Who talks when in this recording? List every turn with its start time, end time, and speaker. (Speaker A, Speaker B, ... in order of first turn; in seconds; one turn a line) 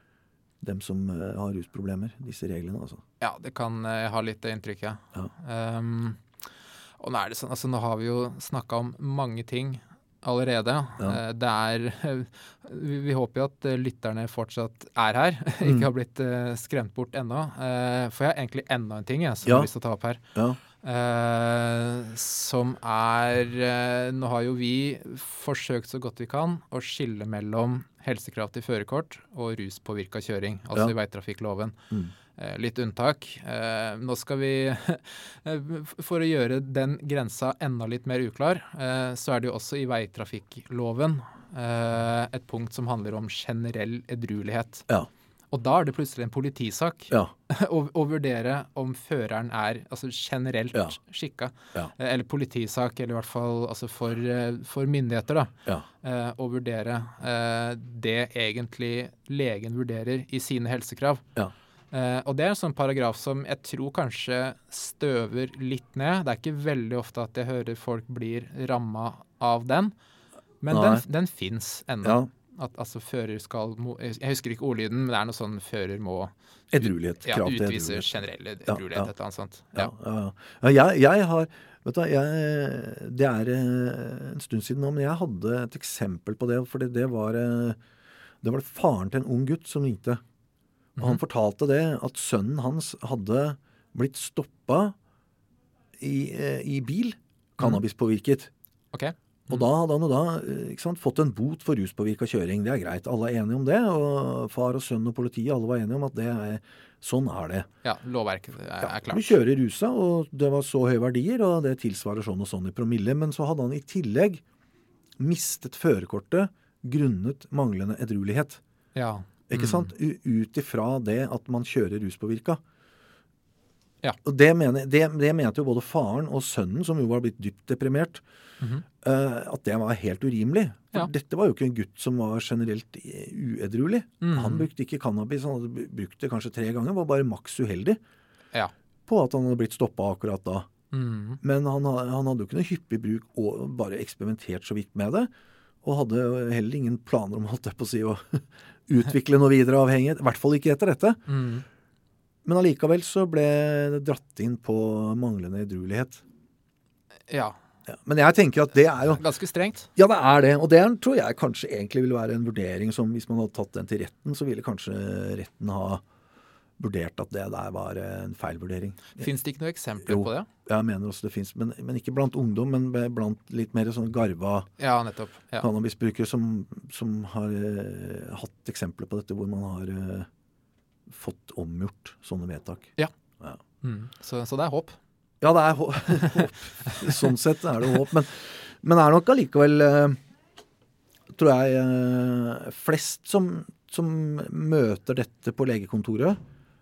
Speaker A: 0.6-3.0
Speaker B: 3.2-6.2
Speaker B: 7.0-20.2
Speaker A: 15.6-15.9
Speaker B: 20.8-31.8
Speaker B: 32.4-44.9
Speaker B: 45.5-61.2
Speaker B: 61.9-69.9
Speaker B: 70.6-76.3
Speaker A: 70.7-71.0
Speaker A: 76.7-78.1
Speaker B: 76.8-79.9
Speaker A: 78.7-79.1
Speaker A: 79.7-87.8
Speaker A: 88.4-90.2
Speaker A: 91.0-95.0
Speaker A: 96.0-98.5
Speaker B: 98.9-99.7
Speaker A: 99.5-107.7
Speaker B: 107.8-109.4
Speaker A: 108.8-114.4
Speaker A: 115.2-118.6
Speaker B: 119.0-119.9
Speaker A: 119.5-122.6
Speaker A: 124.2-128.2
Speaker A: 129.0-138.0
Speaker B: 134.2-134.7
Speaker A: 139.1-140.7
Speaker B: 140.9-141.4
Speaker A: 141.4-145.3
Speaker A: 145.8-151.2
Speaker B: 151.3-151.7
Speaker A: 152.4-156.2
Speaker B: 157.3-157.6
Speaker A: 157.9-159.2
Speaker B: 159.0-159.9
Speaker A: 160.0-166.0
Speaker A: 166.8-169.3
Speaker B: 169.1-170.5
Speaker A: 170.1-174.7
Speaker B: 174.8-175.7
Speaker A: 175.6-180.3
Speaker A: 181.1-183.6
Speaker B: 183.8-185.0
Speaker A: 185.4-190.2
Speaker B: 186.9-187.2
Speaker A: 191.3-196.4